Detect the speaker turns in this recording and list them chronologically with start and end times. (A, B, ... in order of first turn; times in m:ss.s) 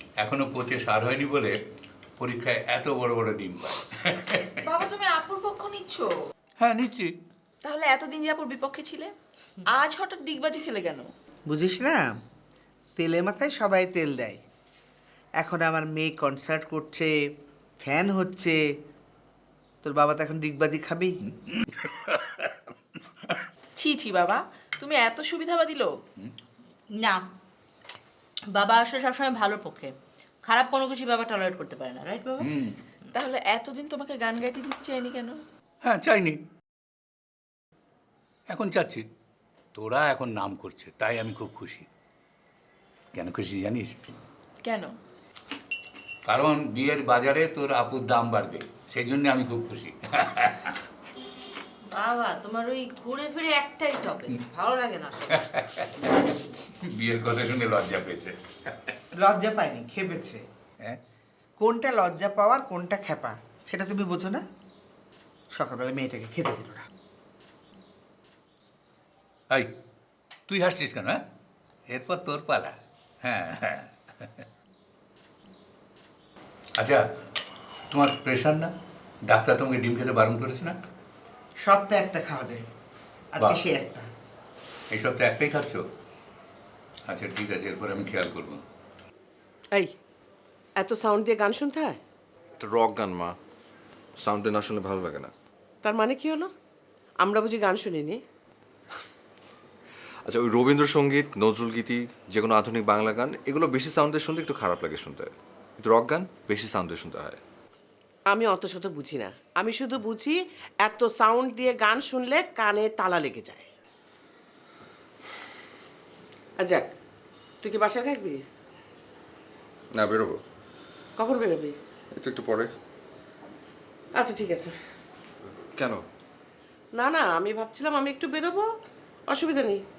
0:00.2-0:01.6 A
0:02.2-0:04.6 A
0:04.7-0:06.1 B
0:06.6-0:07.1 A
0:07.6-0:09.1 B
0:09.7-0:11.1 B
0:11.5-0:12.1 C
0:13.0-0:14.4 C
0:15.4-0:17.1 C
0:17.8-0:18.6 C
0:19.8-0:21.2 C
0:21.5-0:22.5 A
0:23.8-0:25.9 B
0:27.0-0:27.2 D
0:28.5-0:29.9 D
0:30.5-0:32.5 D
0:32.4-0:32.8 A
0:33.1-0:35.4 B
0:35.8-0:36.4 A
0:38.5-0:39.0 A
0:39.8-0:41.9 A
0:43.1-0:44.0 A
0:44.6-0:44.9 B
0:46.3-0:50.8 A
0:51.9-0:55.4 D
0:55.3-0:55.9 A
0:56.9-0:58.9 A
0:59.2-1:00.4 C
1:01.6-1:04.4 C
1:05.5-1:06.8 C
1:10.5-1:11.2 A
1:11.9-1:14.4 A
1:17.9-1:18.7 A
1:19.3-1:20.8 A
1:21.6-1:22.6 C
1:23.3-1:24.1 C
1:24.9-1:25.8 A
1:27.1-1:28.6 A
1:30.8-1:32.0 E
1:32.6-1:33.3 F
1:34.2-1:35.3 F
1:35.8-1:36.5 E
1:37.2-1:38.2 E
1:40.3-1:47.4 F
1:48.3-1:53.7 E
1:56.6-1:56.9 E
1:57.6-1:58.4 E
2:00.0-2:00.4 F
2:01.2-2:01.8 E
2:02.2-2:02.7 F
2:04.2-2:04.7 E
2:05.8-2:06.0 F
2:07.0-2:08.7 E
2:09.3-2:09.8 E